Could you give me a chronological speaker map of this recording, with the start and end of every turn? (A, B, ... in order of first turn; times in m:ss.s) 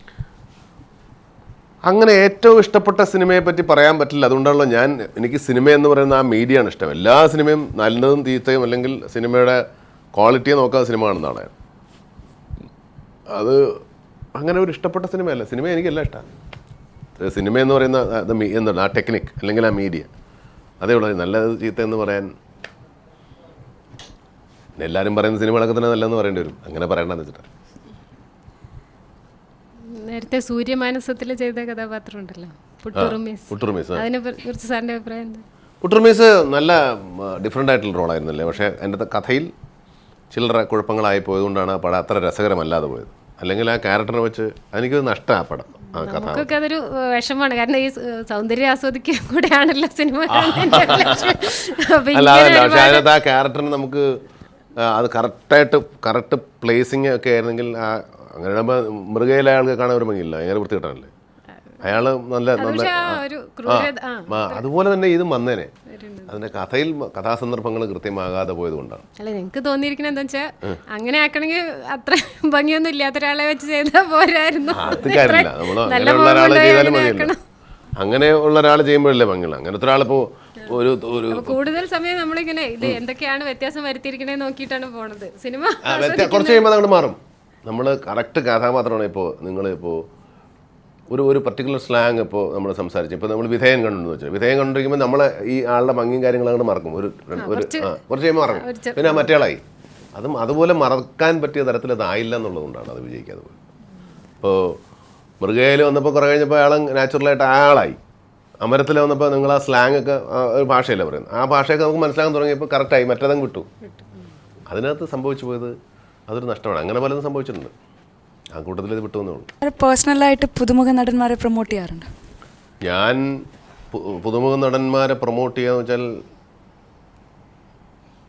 0:01.9-0:09.6 A
0:10.1-0:11.5 A
0:13.3-0:13.8 A
0:14.4-0:16.2 A
0:17.2-0:20.1 A
0:20.8-0:22.3 A
0:24.8-0:27.4 A
0:29.9-0:35.4 B
0:32.9-0:34.0 A
0:35.8-0:39.5 A
0:40.3-0:46.5 A
0:46.0-0:53.1 B
0:50.3-0:51.3 A
0:52.1-0:54.2 A
0:54.8-1:01.1 A
1:01.8-1:05.7 A
1:02.6-1:04.6 B
1:05.9-1:06.3 B
1:06.3-1:09.0 A
1:09.2-1:17.4 B
1:14.7-1:17.3 A
1:18.0-1:21.5 A
1:21.3-1:26.7 B
1:25.8-1:30.0 A
1:31.1-1:39.6 A
1:37.4-1:37.9 B
1:38.5-1:39.3 B
1:40.1-1:43.5 A
1:44.4-1:44.8 A
1:45.4-1:48.0 A
1:48.6-1:53.7 A
1:54.7-1:55.7 A
1:56.3-1:57.7 A
1:58.5-1:59.5 A
1:59.6-2:02.1 C
2:02.8-2:06.1 A